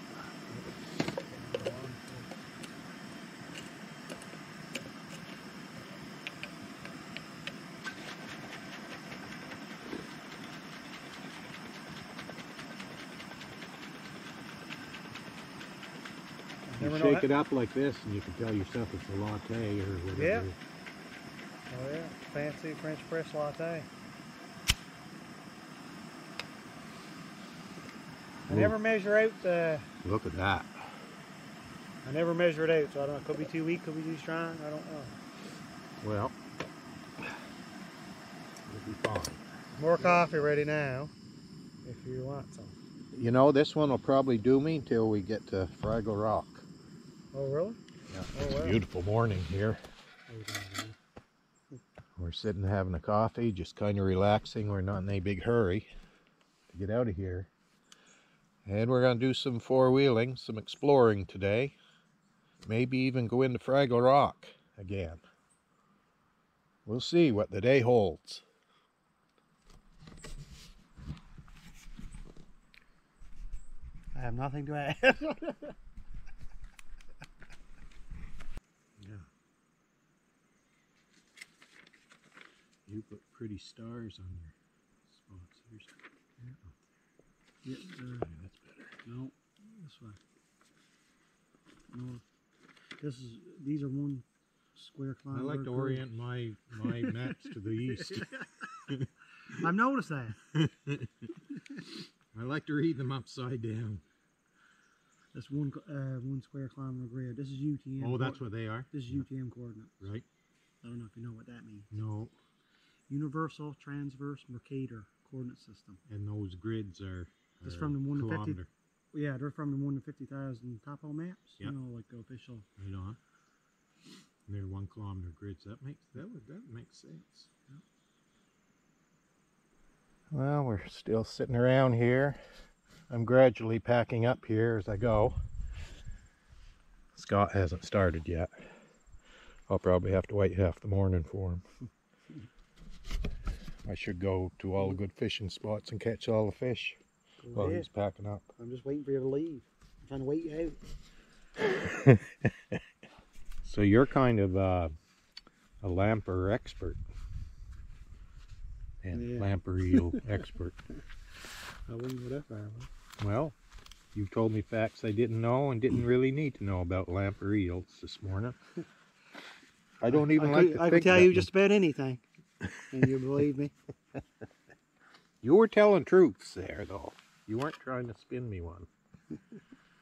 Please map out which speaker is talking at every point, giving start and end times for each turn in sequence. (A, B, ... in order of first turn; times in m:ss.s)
0:00.5-0:02.3 A
0:16.7-0:17.3 A
0:16.8-0:20.6 B
0:20.1-0:20.5 A
0:21.7-0:23.9 A
0:28.5-0:29.9 A
0:28.5-0:28.8 B
0:30.0-0:30.8 B
0:32.0-0:35.2 A
0:36.0-0:36.4 B
0:38.7-0:39.4 B
0:39.8-0:41.1 A
0:41.8-0:42.8 A
0:43.1-0:46.7 B
0:47.3-0:47.8 A
0:48.1-0:49.8 B
0:48.3-0:48.8 A
0:50.3-0:51.0 A
0:52.2-0:55.9 B
0:56.7-0:57.5 B
0:58.6-1:01.8 B
1:02.6-1:05.2 B
1:06.9-1:08.4 B
1:14.1-1:15.8 A
1:19.0-1:19.3 B
1:22.9-1:24.5 B
1:25.1-1:25.9 B
1:27.6-1:28.3 A
1:28.2-1:29.0 B
1:29.0-1:30.2 A
1:31.9-1:32.2 A
1:33.0-1:36.1 A
1:35.3-1:38.3 B
1:36.8-1:38.7 A
1:39.5-1:40.4 A
1:40.5-1:41.3 B
1:41.9-1:44.0 B
1:45.3-1:50.0 A
1:48.0-1:49.2 B
1:50.0-1:50.3 B
1:50.8-1:51.9 A
1:51.9-1:52.4 B
1:53.1-1:56.0 A
1:56.1-1:58.7 B
1:57.6-1:58.6 A
1:59.1-2:02.7 A
2:02.8-2:03.2 B
2:04.5-2:07.5 B
2:10.3-2:12.4 B
2:13.1-2:15.4 B
2:17.1-2:18.7 B
2:19.7-2:21.6 B
2:23.8-2:27.0 B
2:27.4-2:27.9 A
2:27.5-2:28.5 B
2:28.6-2:30.8 A
2:31.9-2:32.8 B
2:33.6-2:34.9 B
2:35.8-2:37.0 B
2:39.0-2:40.8 B
2:39.1-2:40.2 A
2:41.9-2:42.9 A
2:43.2-2:43.6 B
2:44.2-2:48.6 B
2:50.0-2:51.5 B
2:50.1-2:52.2 A
2:52.9-2:53.7 A
2:55.4-2:58.9 B